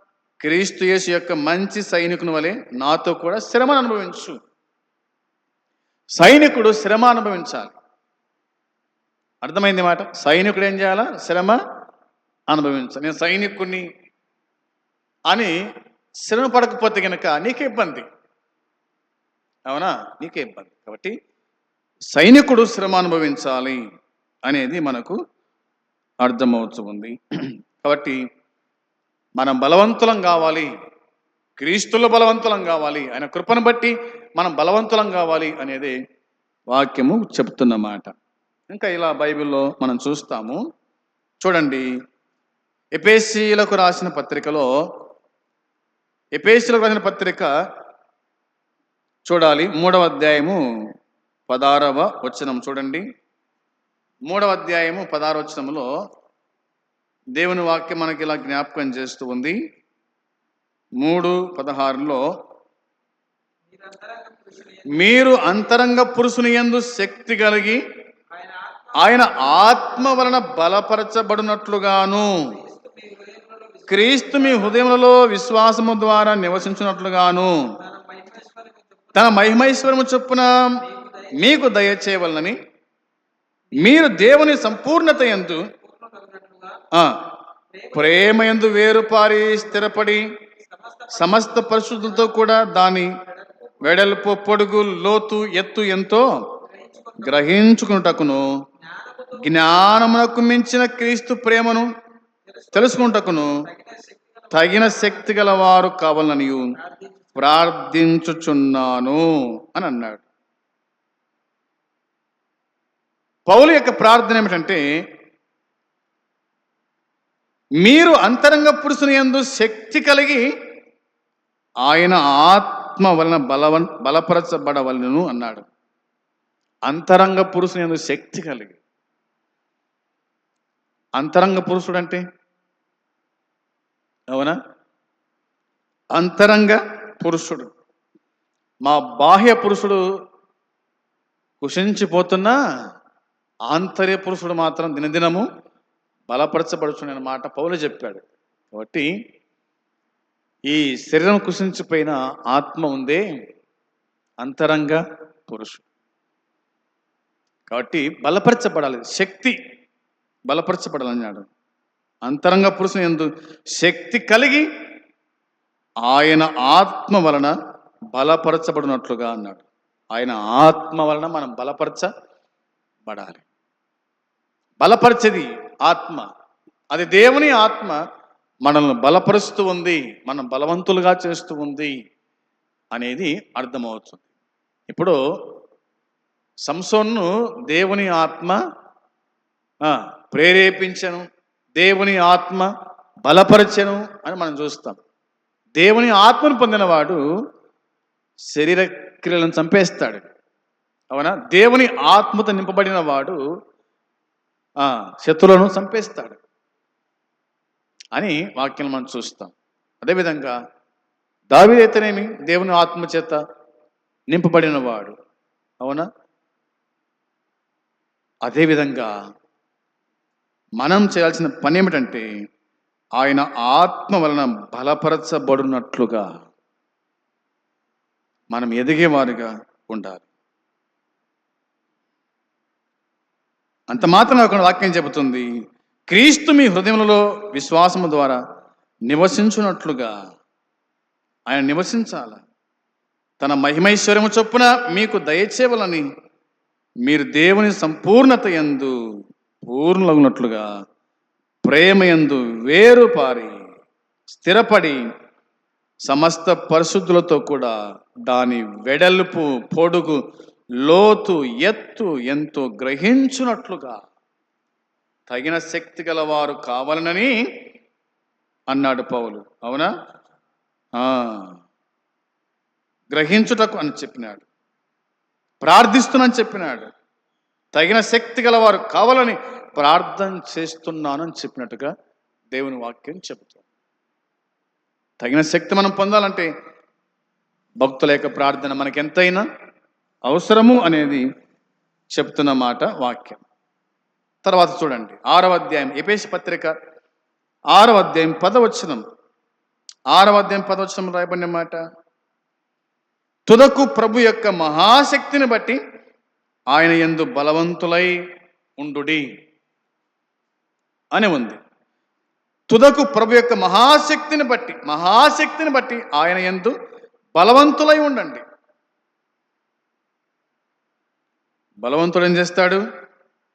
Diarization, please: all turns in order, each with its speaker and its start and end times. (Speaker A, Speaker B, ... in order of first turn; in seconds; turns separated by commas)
Speaker A: 0.4-4.3, Speaker A: 6.2-7.7, Speaker A: 9.4-11.6, Speaker A: 12.5-13.8, Speaker A: 15.3-15.5, Speaker A: 16.2-18.1, Speaker A: 19.7-21.1, Speaker A: 22.1-23.8, Speaker A: 24.4-25.1, Speaker A: 26.2-27.1, Speaker A: 27.8-28.2, Speaker A: 29.4-30.7, Speaker A: 31.6-35.9, Speaker A: 36.7-38.1, Speaker A: 38.7-40.6, Speaker A: 41.4-41.9, Speaker A: 42.9-44.6, Speaker A: 46.3-47.5, Speaker A: 49.2-50.6, Speaker A: 51.5-53.0, Speaker A: 54.3-55.9, Speaker A: 57.4-59.6, Speaker A: 61.0-62.2, Speaker B: 63.7-65.8, Speaker A: 64.9-67.8, Speaker B: 68.3-70.4, Speaker A: 69.0-72.4, Speaker B: 72.5-74.9, Speaker A: 73.9-77.5, Speaker B: 77.8-79.4, Speaker A: 79.1-80.8, Speaker B: 80.8-81.7, Speaker A: 81.3-82.6, Speaker A: 83.8-85.7, Speaker B: 85.7-86.8, Speaker B: 87.7-88.8, Speaker A: 87.9-90.3, Speaker B: 90.6-92.4, Speaker A: 91.1-93.1, Speaker B: 93.3-94.0, Speaker A: 93.8-96.2, Speaker B: 96.7-97.5, Speaker A: 97.2-98.4, Speaker B: 98.8-99.5, Speaker A: 99.4-101.9, Speaker B: 102.5-105.5, Speaker A: 102.7-103.6, Speaker A: 104.5-106.7, Speaker B: 106.8-107.5, Speaker A: 107.3-109.2, Speaker A: 109.7-110.2, Speaker A: 113.5-114.8, Speaker A: 117.8-120.4, Speaker A: 121.8-125.7, Speaker A: 126.9-128.8, Speaker A: 131.2-132.2, Speaker A: 134.3-134.6, Speaker A: 136.2-137.7, Speaker A: 138.8-140.0, Speaker A: 141.6-142.6, Speaker A: 143.7-145.4, Speaker A: 146.3-149.1, Speaker A: 150.7-153.2, Speaker A: 154.4-155.8, Speaker A: 157.7-159.6, Speaker A: 160.5-161.5, Speaker A: 162.2-164.7, Speaker A: 166.1-167.5, Speaker A: 168.1-169.6, Speaker A: 170.1-172.1, Speaker A: 173.1-173.4, Speaker A: 174.8-176.3, Speaker A: 176.9-178.0, Speaker A: 178.6-181.9, Speaker A: 182.9-184.2, Speaker A: 184.9-185.2, Speaker A: 186.7-188.6, Speaker A: 189.8-191.2, Speaker A: 191.8-192.7, Speaker A: 193.2-195.0, Speaker A: 195.8-197.2, Speaker A: 198.5-200.3, Speaker A: 201.1-203.4, Speaker A: 204.8-206.4, Speaker A: 208.1-210.5, Speaker A: 211.5-213.4, Speaker A: 214.3-215.1, Speaker A: 215.8-216.1, Speaker A: 218.4-219.1, Speaker A: 220.8-222.2, Speaker A: 223.2-226.3, Speaker A: 228.5-230.2, Speaker A: 233.9-235.4, Speaker A: 236.1-238.4, Speaker A: 239.1-240.1, Speaker A: 241.5-242.4, Speaker A: 243.4-246.1, Speaker A: 247.0-248.9, Speaker A: 249.7-250.7, Speaker A: 251.6-253.5, Speaker A: 254.3-255.0, Speaker A: 256.0-260.2, Speaker A: 260.8-264.0, Speaker A: 265.3-267.3, Speaker A: 268.7-269.9, Speaker A: 271.0-271.6, Speaker A: 273.1-274.4, Speaker A: 275.6-276.9, Speaker A: 277.7-281.9, Speaker A: 282.5-283.6, Speaker A: 285.2-286.5, Speaker A: 287.8-289.4, Speaker A: 290.3-291.2, Speaker A: 292.1-293.4, Speaker A: 294.4-296.7, Speaker A: 297.7-299.0, Speaker A: 300.1-301.8, Speaker A: 303.5-305.8, Speaker A: 306.7-308.2, Speaker A: 308.8-309.3, Speaker A: 311.1-311.6, Speaker A: 312.7-316.7, Speaker A: 317.3-318.4, Speaker A: 321.8-322.8